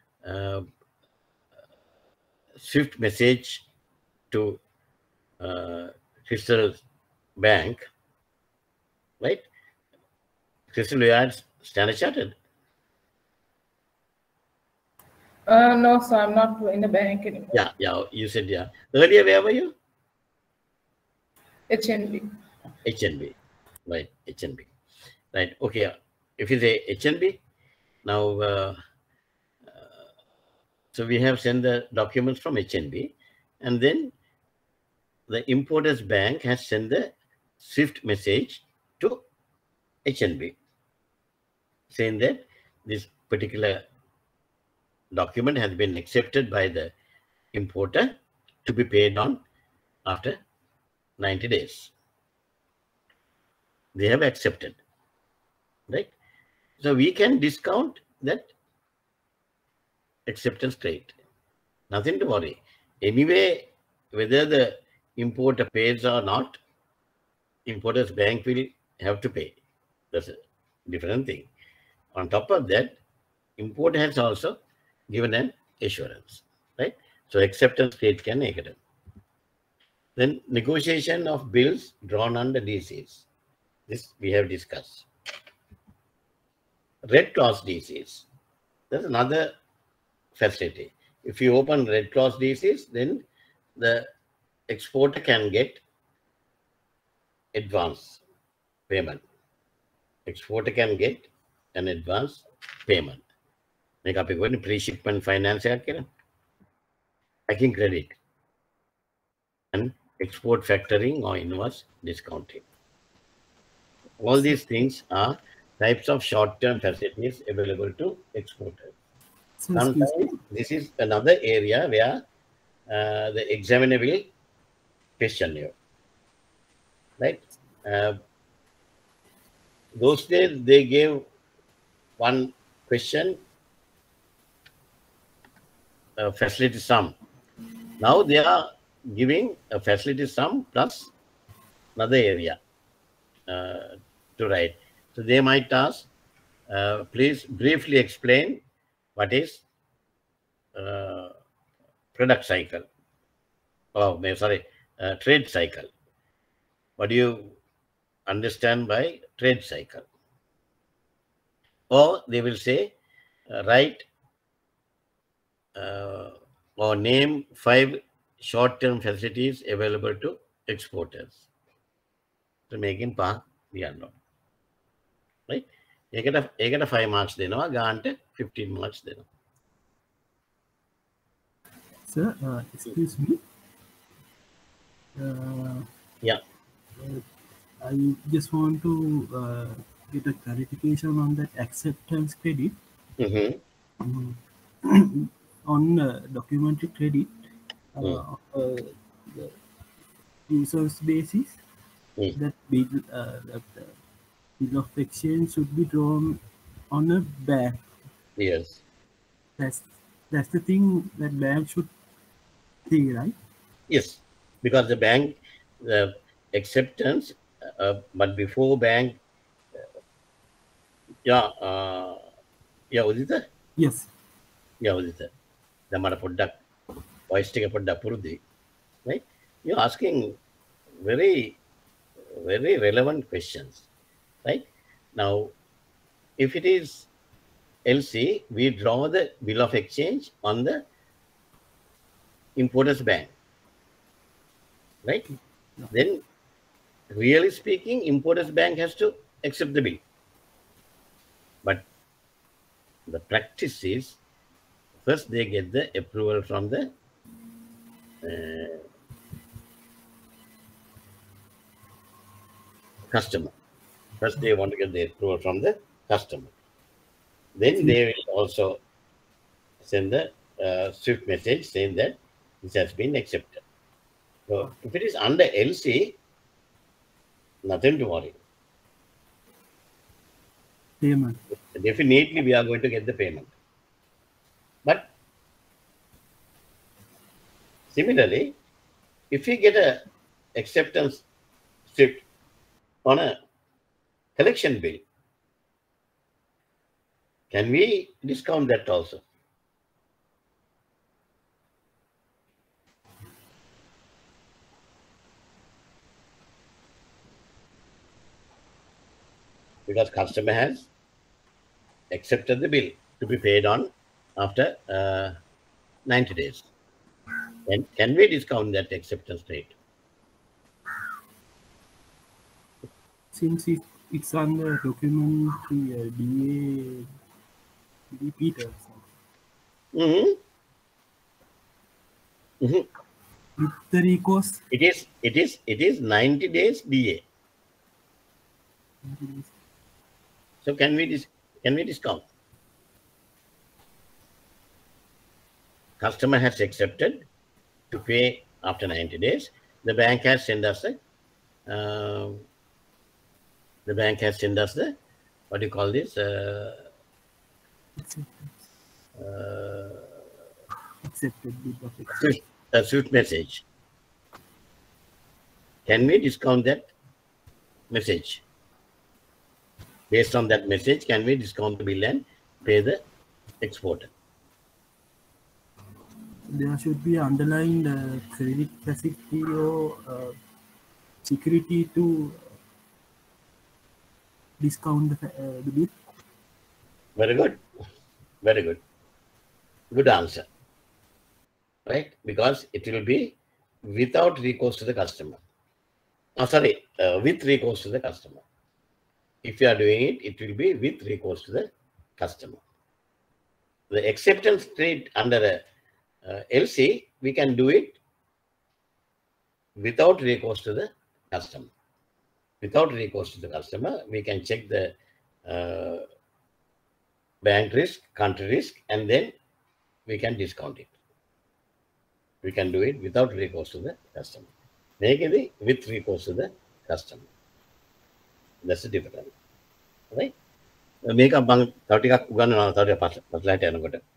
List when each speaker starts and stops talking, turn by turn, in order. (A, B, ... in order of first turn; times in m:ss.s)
0:00.2-0:00.7 A
0:02.6-0:03.6 A
0:04.3-0:04.6 A
0:05.4-0:06.8 A
0:07.4-0:07.9 A
0:09.2-0:09.5 A
0:10.7-0:12.4 A
0:15.5-0:17.6 B
0:17.5-0:19.7 A
0:21.7-0:22.3 B
0:22.8-0:23.3 A
0:23.9-0:24.7 A
0:25.3-0:27.4 A
0:28.0-0:28.8 A
0:30.9-0:34.1 A
0:35.3-0:39.2 A
0:40.0-0:40.6 A
0:41.9-0:43.8 A
0:45.1-0:46.9 A
0:47.5-0:48.1 A
0:48.6-0:49.4 A
0:50.1-0:50.4 A
0:51.2-0:51.9 A
0:54.0-0:54.8 A
0:56.8-0:58.5 A
1:00.3-1:01.2 A
1:01.9-1:06.6 A
1:07.7-1:09.6 A
1:10.1-1:11.5 A
1:12.2-1:13.0 A
1:13.6-1:14.6 A
1:15.1-1:18.8 A
1:20.2-1:23.2 A
1:23.9-1:25.1 A
1:27.1-1:28.2 A
1:28.9-1:29.5 A
1:30.4-1:33.2 A
1:33.8-1:34.1 A
1:34.7-1:35.8 A
1:37.6-1:38.2 A
1:38.9-1:39.2 A
1:40.3-1:43.2 A
1:44.0-1:46.1 A
1:47.5-1:48.2 A
1:49.7-1:52.6 A
1:54.2-1:58.9 A
1:59.6-2:00.4 C
1:59.8-2:02.2 A
2:02.9-2:04.3 A
2:05.2-2:05.7 A
2:07.2-2:08.2 A
2:10.0-2:11.2 A
2:12.2-2:13.4 A
2:16.2-2:17.2 A
2:18.0-2:21.1 A
2:22.0-2:22.6 A
2:23.5-2:26.1 A
2:26.7-2:28.6 A
2:29.2-2:29.6 A
2:30.8-2:31.4 A
2:32.2-2:32.9 A
2:34.0-2:35.9 A
2:37.0-2:37.6 A
2:38.3-2:40.1 A
2:41.9-2:42.9 A
2:43.5-2:44.0 A
2:45.8-2:51.4 A
2:52.7-2:54.1 A
2:55.5-2:59.2 A
3:02.1-3:03.4 C
3:05.2-3:05.9 C
3:07.8-3:12.8 C
3:13.2-3:13.6 A
3:14.0-3:17.3 C
3:18.0-3:19.6 C
3:20.5-3:21.6 C
3:22.4-3:23.9 C
3:24.6-3:26.4 C
3:26.9-3:27.8 C
3:28.4-3:28.8 A
3:29.6-3:31.9 C
3:32.9-3:33.4 C
3:33.9-3:39.2 A
3:41.3-3:42.2 A
3:42.9-3:43.4 A
3:43.8-3:44.1 C
3:44.8-3:45.3 A
3:45.9-3:46.6 A
3:47.3-3:48.4 A
3:49.1-3:50.4 A
3:51.0-3:51.6 A
3:52.3-3:53.8 A
3:54.4-3:55.5 A
3:56.4-3:57.1 A
3:57.9-4:00.8 A
4:02.6-4:03.3 A
4:05.3-4:05.9 C
4:05.9-4:06.2 A
4:07.1-4:10.0 A
4:13.1-4:14.2 A
4:15.0-4:16.9 A
4:18.2-4:18.8 A
4:23.1-4:23.5 A
4:24.2-4:26.5 A
4:27.6-4:28.8 A
4:29.8-4:33.6 A
4:34.5-4:36.1 A
4:37.7-4:38.4 A
4:41.0-4:41.4 C
4:41.7-4:43.5 A
4:47.9-4:48.5 A
4:49.3-4:50.0 A
4:50.6-4:51.2 A
4:51.9-4:52.2 A
4:53.0-4:53.4 A
4:54.4-4:55.0 A
4:57.5-4:59.2 A
5:09.9-5:10.9 A
5:12.1-5:15.4 A
5:16.1-5:16.7 A
5:17.7-5:19.7 A
5:23.3-5:27.1 C
5:28.1-5:29.1 C
5:30.0-5:30.4 A
5:32.6-5:32.9 A
5:33.6-5:34.6 C
5:34.7-5:37.2 A
5:39.0-5:39.5 C
5:40.6-5:42.2 A
5:46.0-5:47.2 A
5:47.9-5:51.0 A
5:51.7-5:52.4 A
5:53.9-5:55.0 A
5:55.5-5:56.9 A
5:58.0-5:58.6 C
5:59.2-6:00.1 A
6:01.0-6:02.3 C
6:02.1-6:03.6 A
6:05.9-6:06.9 A
6:07.9-6:08.4 A
6:10.1-6:13.0 A
6:13.6-6:14.1 A
6:16.5-6:20.4 C
6:21.2-6:22.5 C
6:24.6-6:26.0 C
6:27.2-6:27.6 A
6:28.4-6:28.8 A
6:29.9-6:30.5 A
6:31.9-6:33.3 A
6:33.9-6:35.4 A
6:36.4-6:38.4 A
6:39.4-6:42.6 A
6:43.9-6:45.6 A
6:46.3-6:48.0 A
6:49.8-6:51.7 A
6:52.6-6:54.9 A
6:55.5-6:56.0 A
6:57.4-6:59.3 A
7:00.1-7:00.9 A
7:02.4-7:04.5 A
7:05.0-7:07.2 A
7:08.6-7:09.3 A
7:11.1-7:14.0 A